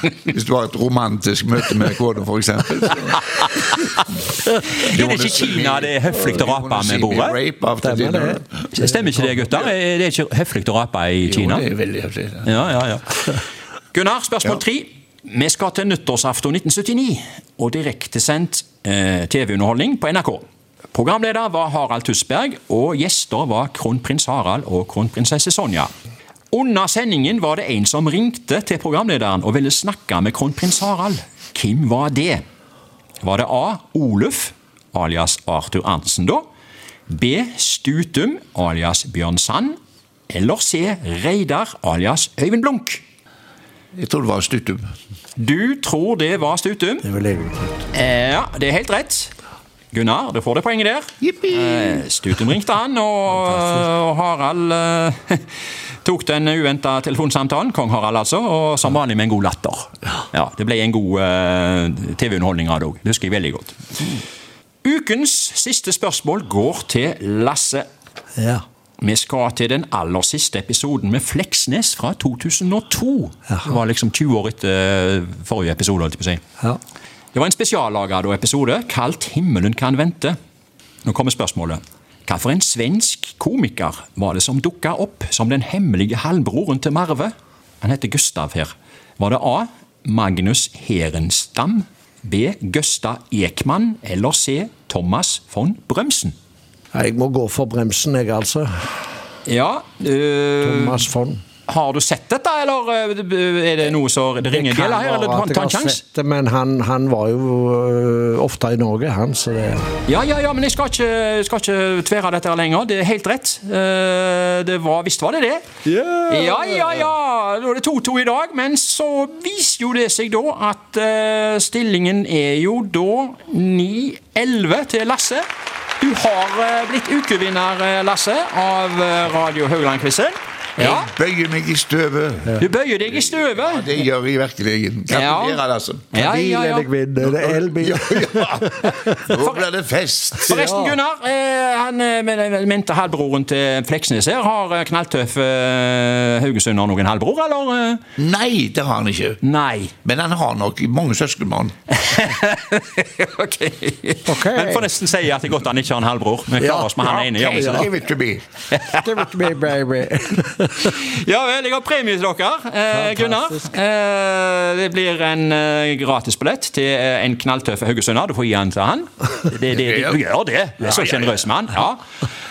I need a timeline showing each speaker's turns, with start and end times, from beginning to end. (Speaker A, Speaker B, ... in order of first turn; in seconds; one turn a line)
Speaker A: 0.2-3.2
Speaker B: 4.7-7.4
Speaker A: 4.8-8.5
Speaker C: 7.8-8.4
Speaker B: 8.7-11.7
Speaker A: 11.3-12.5
Speaker B: 12.4-13.4
Speaker B: 13.9-25.9
Speaker B: 26.5-32.4
Speaker B: 33.2-36.4
Speaker B: 37.1-39.8
Speaker B: 40.3-43.0
Speaker A: 44.0-44.8
Speaker B: 45.4-47.1
Speaker C: 47.0-47.9
Speaker B: 47.9-49.3
Speaker B: 49.9-55.4
Speaker A: 51.2-52.0
Speaker B: 56.0-64.2
Speaker B: 64.8-67.8
Speaker B: 69.0-76.4
Speaker C: 73.5-73.8
Speaker B: 77.3-80.4
Speaker B: 81.0-96.3
Speaker C: 96.9-98.7
Speaker B: 99.5-101.1
Speaker C: 100.6-101.4
Speaker B: 101.7-106.0
Speaker C: 104.5-109.9
Speaker B: 110.1-115.7
Speaker C: 115.9-117.1
Speaker B: 116.3-125.5
Speaker B: 126.0-131.1
Speaker A: 130.8-132.6
Speaker B: 132.6-133.9
Speaker A: 133.2-136.1
Speaker B: 135.1-136.9
Speaker C: 136.2-139.3
Speaker A: 137.2-140.6
Speaker B: 139.4-139.7
Speaker B: 140.4-148.0
Speaker C: 140.4-141.0
Speaker A: 148.2-149.4
Speaker B: 149.4-149.9
Speaker A: 150.0-151.8
Speaker B: 151.9-157.9
Speaker C: 154.2-154.9
Speaker C: 156.6-157.0
Speaker A: 157.0-158.4
Speaker B: 158.7-159.2
Speaker C: 159.0-160.9
Speaker B: 160.6-172.0
Speaker C: 162.9-163.7
Speaker A: 169.7-170.2
Speaker A: 170.8-171.4